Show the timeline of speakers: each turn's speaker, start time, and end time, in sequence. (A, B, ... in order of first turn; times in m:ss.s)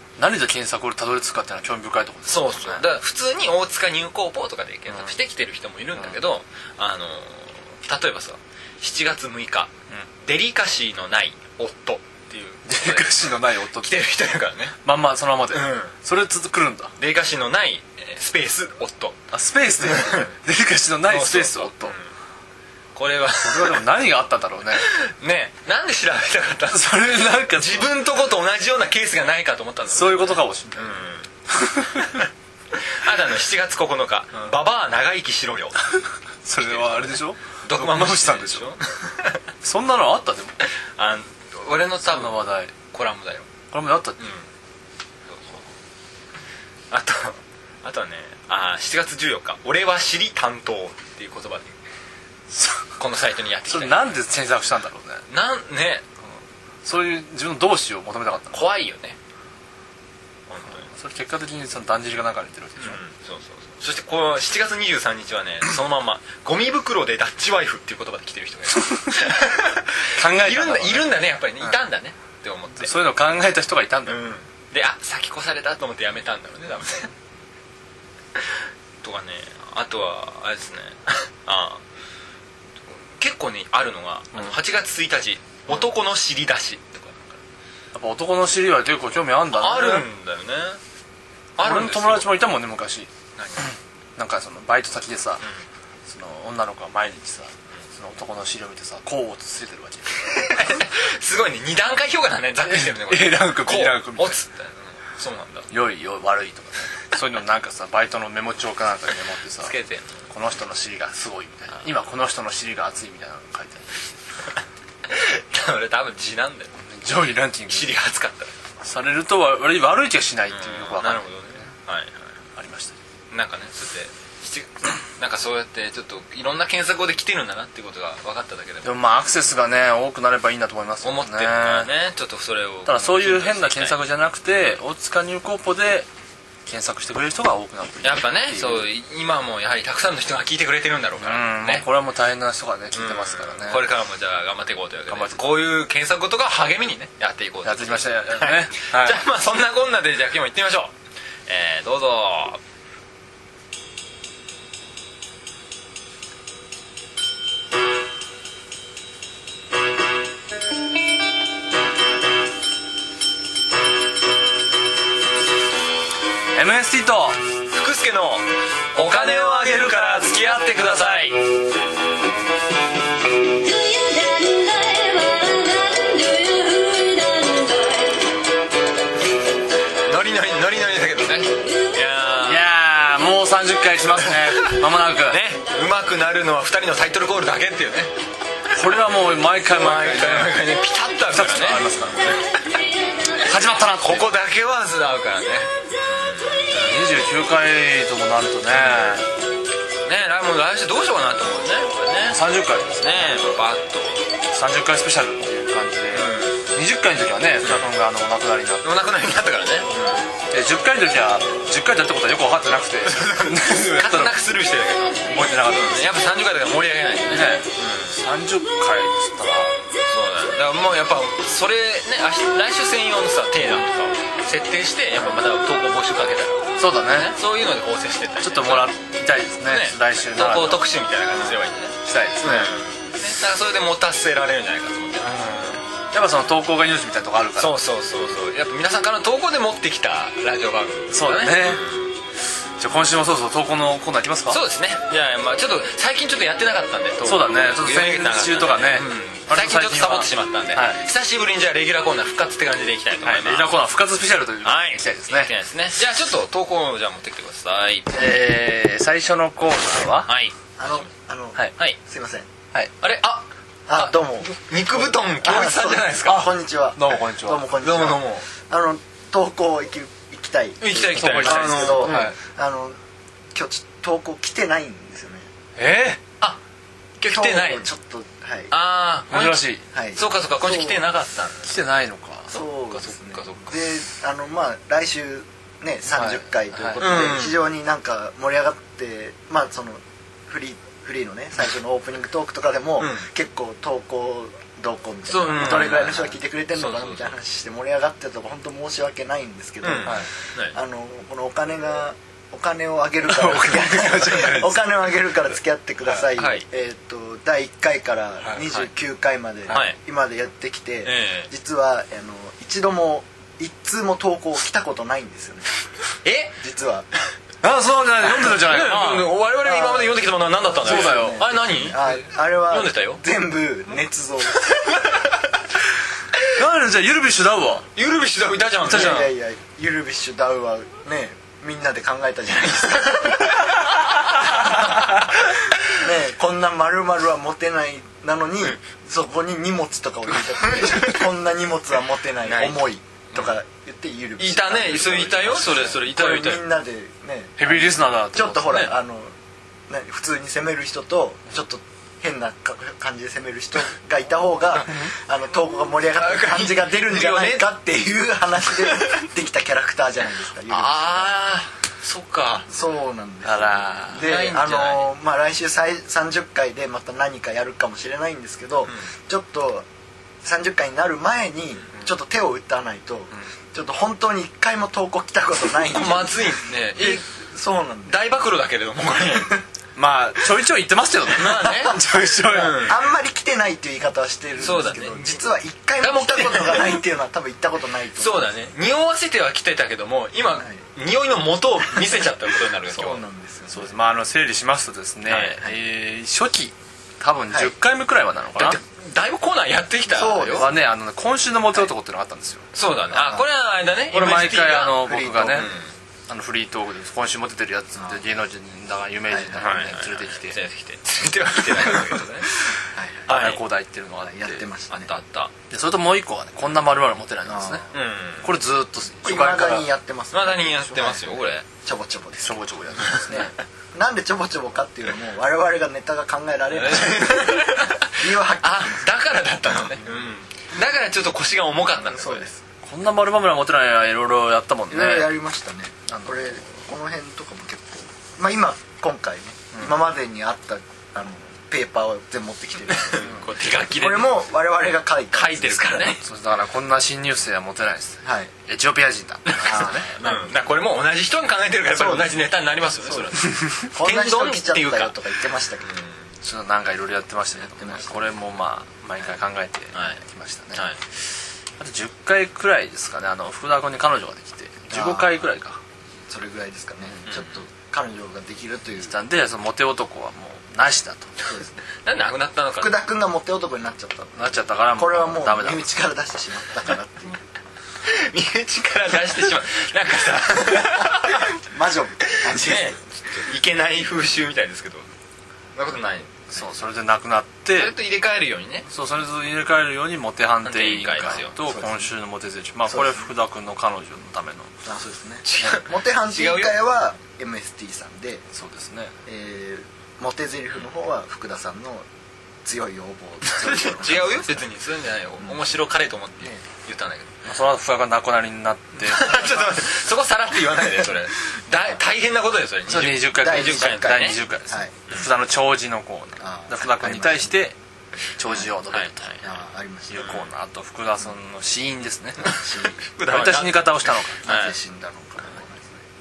0:00.2-0:02.9 A
0:02.3-0:14.8 B
0:04.9-0:05.1 A
0:12.7-0:14.0 A
0:14.8-0:16.9 A
0:15.5-0:15.9 B
0:17.0-0:19.2 B
0:19.3-0:22.0 A
0:19.8-0:20.4 B
0:21.0-0:22.1 B
0:23.0-0:23.9 B
0:23.4-0:24.8 A
0:24.8-0:31.3 B
0:26.7-0:28.0 A
0:29.8-0:30.9 A
0:31.5-0:32.1 A
0:32.7-0:35.8 B
0:36.4-0:38.8 A
0:36.6-0:39.4 B
0:39.6-0:40.6 A
0:40.7-0:43.5 B
0:42.0-0:42.7 A
0:43.7-0:44.2 A
0:44.2-0:44.5 B
0:45.3-0:45.6 B
0:46.9-0:51.8 B
0:52.5-0:52.9 A
0:53.0-0:54.1 B
0:53.6-0:55.2 A
0:55.3-0:56.0 B
0:56.8-0:58.6 A
0:58.5-0:59.2 B
1:00.5-1:00.9 B
1:00.8-1:03.0 A
1:02.8-1:13.0 B
1:10.2-1:11.8 A
1:12.8-1:14.2 A
1:14.1-1:17.1 B
1:19.0-1:21.8 B
1:23.0-1:27.4 B
1:27.9-1:30.1 A
1:29.5-1:30.8 B
1:31.6-1:32.4 B
1:31.6-1:33.1 A
1:33.4-1:33.7 B
1:34.2-1:35.4 A
1:36.1-1:40.7 A
1:40.4-1:45.7 B
1:42.7-1:44.4 A
1:45.7-1:49.8 A
1:49.6-1:50.3 B
1:50.3-1:54.1 A
1:55.1-1:56.8 B
1:56.8-1:58.0 A
1:57.7-1:58.5 B
1:58.8-2:01.6 A
2:00.5-2:02.3 B
2:02.6-2:03.0 A
2:03.3-2:09.0 B
2:08.8-2:11.9 A
2:11.0-2:14.0 B
2:12.8-2:16.1 A
2:16.7-2:18.9 A
2:18.0-2:21.9 B
2:21.2-2:23.9 A
2:22.9-2:30.9 B
2:25.1-2:25.5 A
2:27.6-2:29.2 A
2:31.5-2:32.6 B
2:46.5-2:47.4 A
2:47.7-2:51.4 B
2:49.0-2:51.4 A
2:53.5-2:58.2 C
3:00.1-3:02.7 B
3:02.4-3:05.4 A
3:04.2-3:08.2 B
3:08.7-3:10.6 A
3:09.6-3:12.4 B
3:11.3-3:12.4 A
3:13.4-3:14.3 A
3:14.0-3:17.0 B
3:16.7-3:19.3 A
3:18.7-3:19.2 B
3:20.0-3:22.4 B
3:22.3-3:23.5 A
3:23.0-3:24.3 B
3:24.5-3:28.9 A
3:26.1-3:26.6 B
3:28.8-3:30.3 B
3:30.5-3:34.4 A
3:33.0-3:38.2 B
3:35.3-3:36.1 A
3:37.3-3:39.8 A
3:40.1-3:48.9 B
3:46.8-3:47.4 A
3:48.4-3:50.9 A
3:49.6-3:55.8 B
3:52.0-3:52.8 A
3:56.1-3:57.8 A
3:57.6-4:02.1 B
4:01.1-4:01.9 A
4:02.8-4:04.6 A
4:04.5-4:13.8 B
4:07.2-4:11.0 A
4:13.2-4:15.5 A
4:14.6-4:18.1 B
4:18.1-4:20.3 A
4:20.3-4:21.1 B
4:20.8-4:22.5 D
4:23.0-4:26.5 B
4:23.9-4:33.0 D
4:27.0-4:27.7 A
4:27.8-4:28.5 B
4:30.8-4:32.3 B
4:31.1-4:32.4 A
4:33.5-4:35.5 D
4:35.8-4:36.2 A
4:37.2-4:37.9 B
4:37.3-4:38.7 D
4:38.7-4:41.8 B
4:39.3-4:39.8 A
4:39.9-4:41.0 D
4:41.6-4:42.6 A
4:42.5-4:43.8 B
4:42.5-5:15.7 D
4:46.1-4:47.0 A
4:47.0-4:47.6 B
4:53.0-4:53.3 B
4:55.3-4:56.2 B
4:55.6-4:56.4 A
4:56.7-4:57.3 B
4:59.8-5:00.8 B
5:03.2-5:04.9 A
5:06.3-5:06.7 B
5:09.7-5:10.0 B
5:11.0-5:11.5 B
5:16.2-5:16.6 B
5:16.6-5:17.1 D
5:17.6-5:19.3 A
5:18.3-5:23.2 B
5:19.6-5:25.0 D
5:20.8-5:21.5 A
5:26.6-5:27.9 A
5:28.0-5:29.3 B
5:28.8-5:29.3 A
5:28.9-5:34.9 D
5:35.9-5:49.3 D
5:40.6-5:41.2 B
5:42.4-5:43.6 B
5:44.4-5:46.6 B
5:45.4-5:46.4 A
5:47.6-5:49.0 A
5:49.9-6:01.4 D
5:56.2-5:57.7 B
5:58.8-5:59.2 B
6:00.7-6:02.7 B
6:02.7-6:09.9 D
6:03.4-6:04.3 A
6:04.1-6:05.1 B
6:10.4-6:18.2 D
6:15.9-6:17.2 B
6:18.1-6:19.6 B
6:20.0-6:22.8 A
6:21.4-6:23.0 B
6:22.8-6:28.5 D
6:24.6-6:27.0 B
6:28.2-6:33.2 B
6:30.5-6:30.8 D
6:32.9-6:34.0 D
6:33.7-6:38.8 A
6:35.3-6:35.6 B
6:38.6-6:40.7 B
6:40.1-6:40.8 D
6:40.6-6:42.7 A
6:42.7-6:45.9 B
6:43.1-6:43.5 D
6:44.1-6:45.7 A
6:45.0-6:45.8 D
6:46.3-6:50.6 A
6:48.0-6:48.2 D
6:49.6-6:52.5 B
6:52.9-6:53.4 D
6:53.3-6:53.6 B
6:53.3-6:54.7 A
6:54.2-6:55.1 D
6:54.9-6:55.5 B
6:55.7-6:57.9 A
6:57.4-6:57.8 D
6:57.9-6:58.5 B
6:58.4-6:59.9 A
6:59.2-7:09.1 D
7:00.3-7:01.6 B
7:02.4-7:03.5 A
7:03.0-7:03.4 B
7:06.8-7:12.5 B
7:12.0-7:12.6 D
7:12.8-7:15.3 A
7:14.9-7:23.4 D
7:16.1-7:16.6 A
7:22.9-7:24.4 B
7:23.9-7:26.2 D
7:25.3-7:26.2 B
7:26.2-7:30.1 A
7:28.2-7:28.5 D
7:29.5-7:35.2 B
7:29.6-7:30.6 D
7:32.0-7:32.3 D
7:33.0-7:35.9 D
7:35.9-7:36.2 B
7:36.4-7:40.9 A
7:37.6-7:38.3 D
7:39.9-7:40.2 B
7:40.7-7:41.0 B
7:41.8-7:45.8 A
7:44.9-7:45.4 D
7:46.3-7:49.2 D
7:47.3-7:47.6 B
7:49.0-7:51.3 A
7:51.5-7:51.8 D
7:52.0-7:53.0 B
7:52.8-7:57.6 D
7:54.4-7:55.9 A
7:58.0-8:01.5 B
8:01.6-8:03.0 D
8:02.3-8:05.1 B
8:05.8-8:06.5 B
8:06.5-8:08.0 A
8:07.7-8:08.9 B
8:08.9-8:14.7 A
8:10.6-8:11.6 B
8:11.6-8:12.1 D
8:12.9-8:13.2 D
8:14.8-8:18.4 D
8:15.4-8:16.8 B
8:18.5-8:19.1 A
8:19.3-8:22.0 D
8:22.6-8:24.6 D
8:23.5-8:27.4 B
8:27.4-8:29.5 A
8:29.0-8:34.4 B
8:32.9-8:37.8 A
8:33.2-8:34.9 D
8:36.4-8:37.5 D
8:38.4-8:39.4 A
8:38.9-8:39.4 B
8:39.4-8:40.4 D
8:40.1-8:42.5 A
8:40.2-8:40.5 B
8:42.4-8:43.0 D
8:42.5-8:44.8 B
8:43.2-8:44.4 A
8:44.4-8:46.0 D